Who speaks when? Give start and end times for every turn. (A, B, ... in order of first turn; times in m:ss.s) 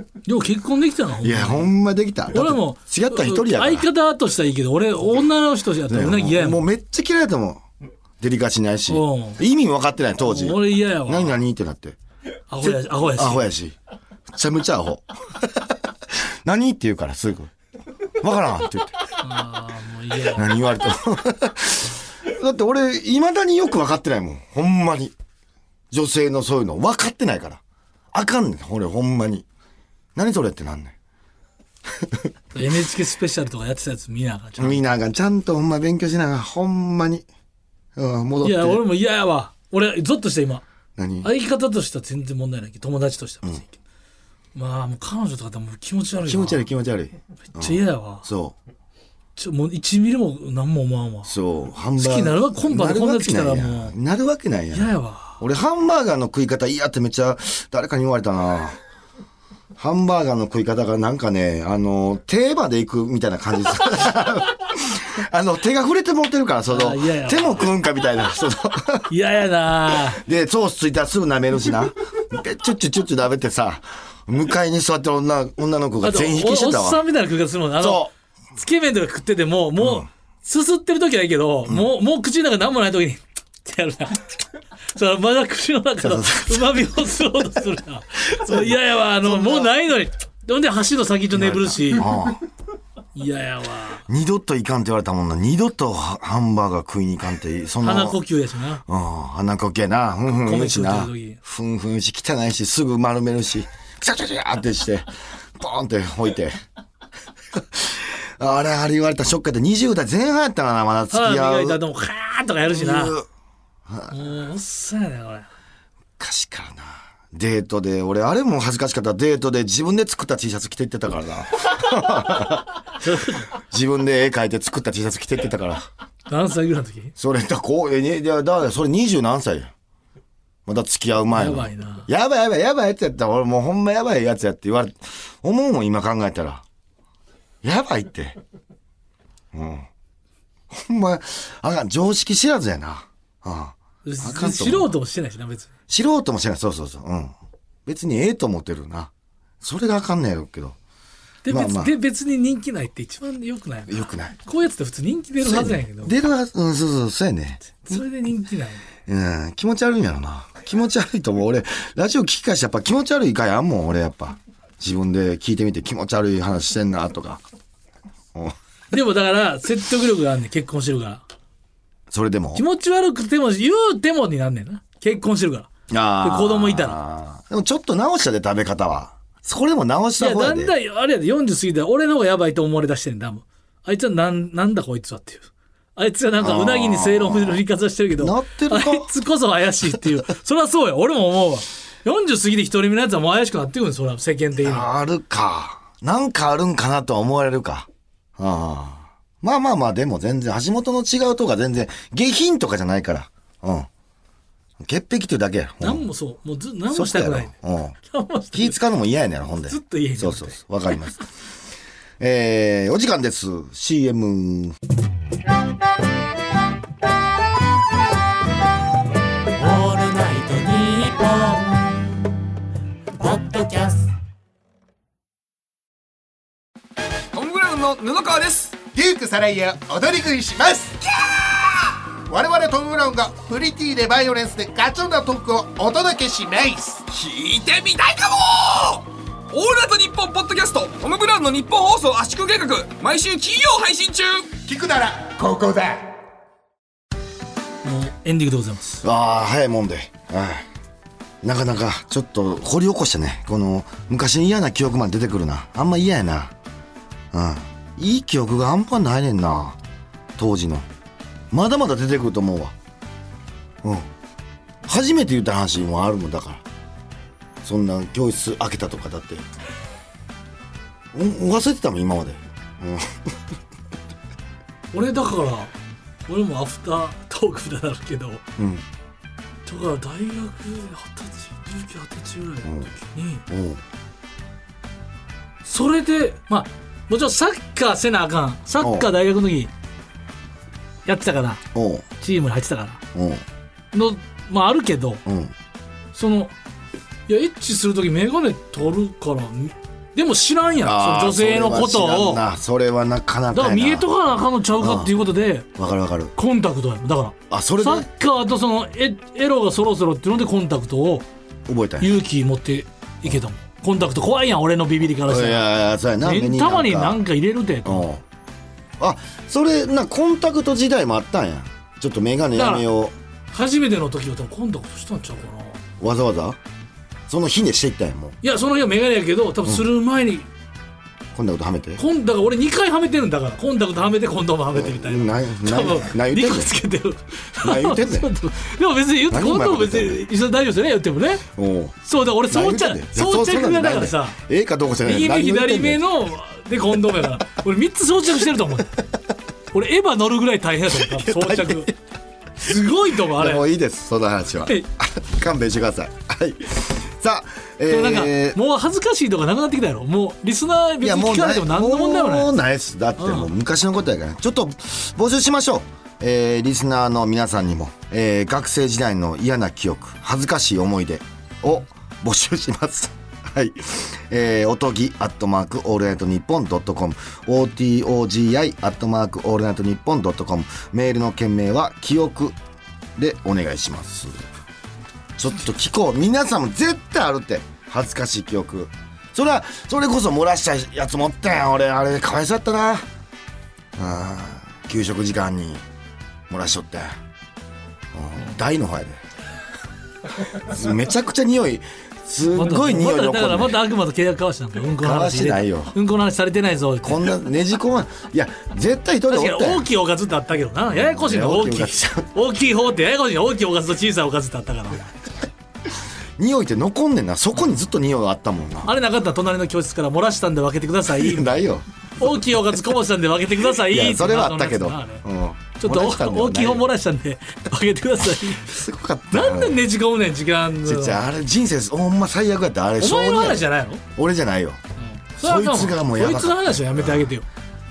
0:00.3-0:01.7 A
0:01.2-0:03.9 B
0:02.3-0:06.6 A
0:05.9-0:07.6 B
0:08.2-0:12.0 B
0:08.9-0:09.4 A
0:10.3-0:11.4 A
0:12.5-0:13.5 A
0:12.6-0:13.8 B
0:14.3-0:17.5 B
0:18.2-0:19.0 B
0:19.2-0:20.5 A
0:20.2-0:25.1 B
0:25.9-0:27.6 B
0:28.1-0:29.4 B
0:30.2-0:31.0 B
0:31.9-0:32.3 B
0:32.5-0:34.8 A
0:34.6-0:37.2 B
0:38.0-0:38.8 B
0:38.4-0:40.6 A
0:41.0-0:41.3 B
0:41.2-0:43.8 A
0:44.6-0:46.6 A
0:46.3-0:48.6 B
0:47.6-0:48.3 A
0:49.4-0:51.3 A
0:51.3-0:58.8 B
0:52.0-0:53.9 A
0:54.7-0:55.4 A
0:59.8-1:09.1 B
1:06.7-1:07.7 A
1:09.1-1:10.2 A
1:10.1-1:17.0 B
1:16.0-1:24.3 A
1:17.8-1:18.1 B
1:19.8-1:20.1 B
1:24.9-1:32.1 A
1:26.0-1:26.8 B
1:29.2-1:29.7 B
1:31.3-1:32.4 B
1:33.1-1:34.1 A
1:34.1-1:38.2 B
1:37.8-1:38.8 A
1:38.9-1:46.6 B
1:40.3-1:41.4 A
1:47.5-1:51.8 B
1:51.1-1:53.2 A
1:52.7-1:53.3 B
1:53.9-1:54.2 B
1:54.1-1:55.5 A
1:56.2-2:02.8 B
2:03.0-2:03.5 A
2:03.5-2:05.9 B
2:06.3-2:07.1 A
2:07.2-2:09.7 B
2:10.7-2:16.6 B
2:11.3-2:12.1 A
2:17.6-2:18.4 B
2:19.5-2:19.9 B
2:20.7-2:25.0 B
2:24.0-2:25.7 A
2:25.9-2:27.3 B
2:27.9-2:30.8 B
2:31.4-2:36.2 A
2:31.5-2:31.9 B
2:33.9-2:34.4 B
2:35.4-2:38.0 B
2:37.8-2:38.8 A
2:39.1-2:47.4 B
2:48.9-2:51.2 A
2:52.1-2:52.6 B
2:52.6-2:55.7 A
2:55.9-3:00.7 B
2:56.2-2:57.0 A
3:00.2-3:14.9 A
3:06.4-3:07.6 B
3:08.2-3:09.1 B
3:14.6-3:23.9 B
3:24.8-3:26.0 B
3:25.8-3:27.5 A
3:26.9-3:28.0 B
3:28.0-3:28.8 A
3:28.5-3:31.3 B
3:29.7-3:30.6 A
3:32.2-3:34.8 B
3:39.6-3:42.2 C
3:43.2-3:44.1 C
3:47.3-3:48.8 D
3:48.8-3:57.1 E
3:57.1-4:04.6 D
4:04.6-4:06.1 E
4:07.8-4:09.0 A
4:09.0-4:10.7 B
4:11.4-4:16.5 B
4:17.3-4:19.8 B
4:20.4-4:20.9 B
4:21.5-4:22.8 B
4:23.8-4:24.1 B
4:24.8-4:26.6 B
4:27.6-4:29.5 B
4:31.1-4:33.4 B
4:34.9-4:35.7 A
4:36.3-4:38.4 A
4:38.6-4:38.8 B
4:39.7-4:43.4 A
4:42.6-4:42.9 B
4:43.5-4:43.8 B
4:45.6-4:49.7 A
4:48.8-4:49.1 B
4:51.1-4:51.6 A
4:51.7-4:52.1 B
4:52.2-4:53.0 A
4:53.1-4:53.4 B
4:53.9-4:55.2 A
4:55.3-4:55.5 B
4:56.1-4:56.5 A
4:57.3-5:02.4 A
5:00.8-5:04.1 B
5:03.5-5:05.7 A
5:04.8-5:05.1 B
5:05.8-5:06.3 B
5:06.4-5:11.3 A
5:07.5-5:08.1 B
5:11.7-5:12.2 B
5:12.0-5:15.7 A
5:15.3-5:17.2 B
5:16.2-5:18.1 A
5:17.8-5:18.2 B
5:19.0-5:23.2 B
5:22.5-5:22.9 A
5:23.5-5:25.8 A
5:26.0-5:26.6 B
5:27.3-5:28.4 B
5:28.4-5:30.5 A
5:31.3-5:32.0 B
5:32.0-5:41.4 A
5:34.7-5:36.7 B
5:37.6-5:38.3 B
5:39.3-5:40.2 B
5:41.6-5:42.0 B
5:42.0-5:44.4 A
5:42.5-5:46.0 B
5:45.0-5:49.0 A
5:49.7-5:51.9 A
5:51.0-5:51.9 B
5:52.6-5:53.6 A
5:53.2-5:58.6 B
5:57.9-6:02.5 A
6:01.0-6:22.6 B
6:03.2-6:03.5 A
6:23.2-6:24.4 B
6:25.4-6:33.1 B
6:34.0-6:35.8 B
6:36.5-6:37.1 B
6:38.1-6:39.2 B
6:40.6-6:43.8 B
6:42.5-6:47.3 A
6:45.0-6:45.9 B
6:47.0-6:49.9 B
6:49.3-6:55.1 A
6:50.9-6:52.3 B
6:56.4-6:58.9 B
6:58.8-7:01.6 A
7:01.1-7:01.8 B
7:02.2-7:05.2 A
7:03.8-7:06.9 B
7:05.8-7:08.8 A
7:08.6-7:09.8 B
7:09.3-7:11.2 A
7:10.8-7:13.6 B
7:13.0-7:14.0 A
7:14.2-7:14.8 B
7:15.0-7:17.4 A
7:15.4-7:17.3 B